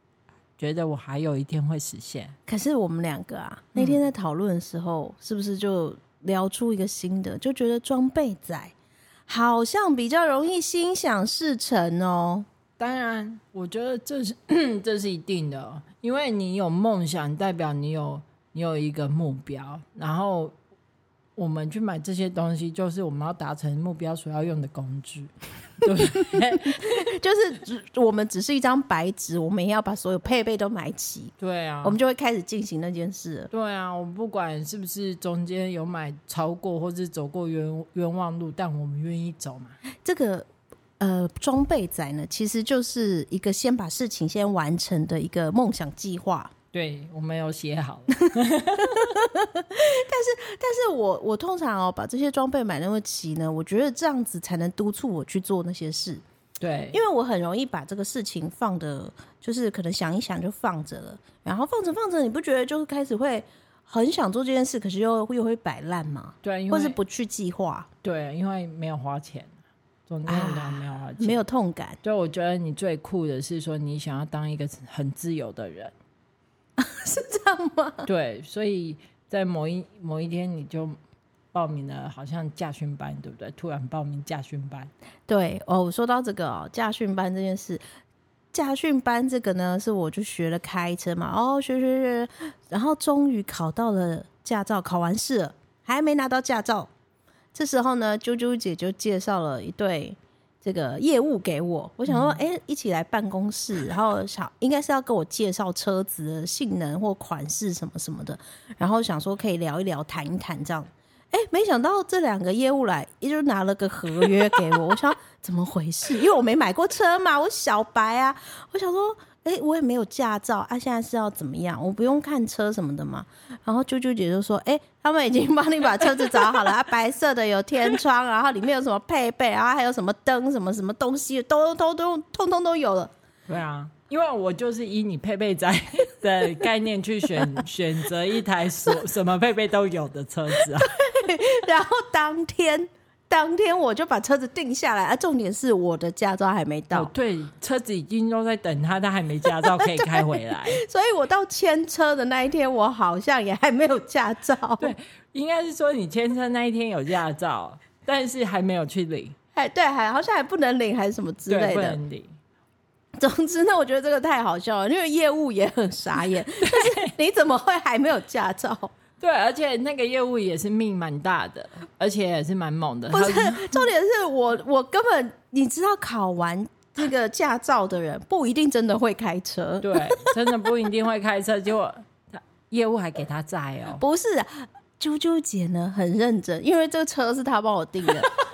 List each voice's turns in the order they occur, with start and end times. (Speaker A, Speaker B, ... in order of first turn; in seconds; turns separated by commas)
Speaker A: 0.6-2.4, Speaker B: 2.5-8.7, Speaker A: 3.8-4.0, Speaker B: 9.3-12.5, Speaker A: 12.8-20.5, Speaker A: 21.4-27.1, Speaker B: 26.3-33.5, Speaker A: 31.4-32.0, Speaker A: 33.5-39.8, Speaker B: 40.0-40.5, Speaker B: 41.0-46.5, Speaker A: 46.7-49.2, Speaker B: 48.8-56.2, Speaker A: 56.6-57.0, Speaker B: 56.9-67.9, Speaker A: 66.4-67.0, Speaker A: 68.0-69.5, Speaker A: 70.1-71.4, Speaker B: 70.3-72.0, Speaker A: 72.0-75.9, Speaker B: 76.8-78.1, Speaker A: 78.0-81.0, Speaker A: 81.5-84.9, Speaker B: 85.3-87.8, Speaker B: 88.5-96.9, Speaker B: 97.5-133.1, Speaker A: 102.1-102.4, Speaker A: 133.5-141.0, Speaker B: 140.8-147.1, Speaker A: 146.9-150.8, Speaker B: 149.5-154.9, Speaker A: 154.8-159.3, Speaker B: 159.6-162.0, Speaker A: 161.5-162.4, Speaker B: 163.2-168.9, Speaker A: 166.6-167.1, Speaker A: 169.2-173.9, Speaker B: 173.1-180.3, Speaker A: 179.8-184.0, Speaker B: 184.0-188.3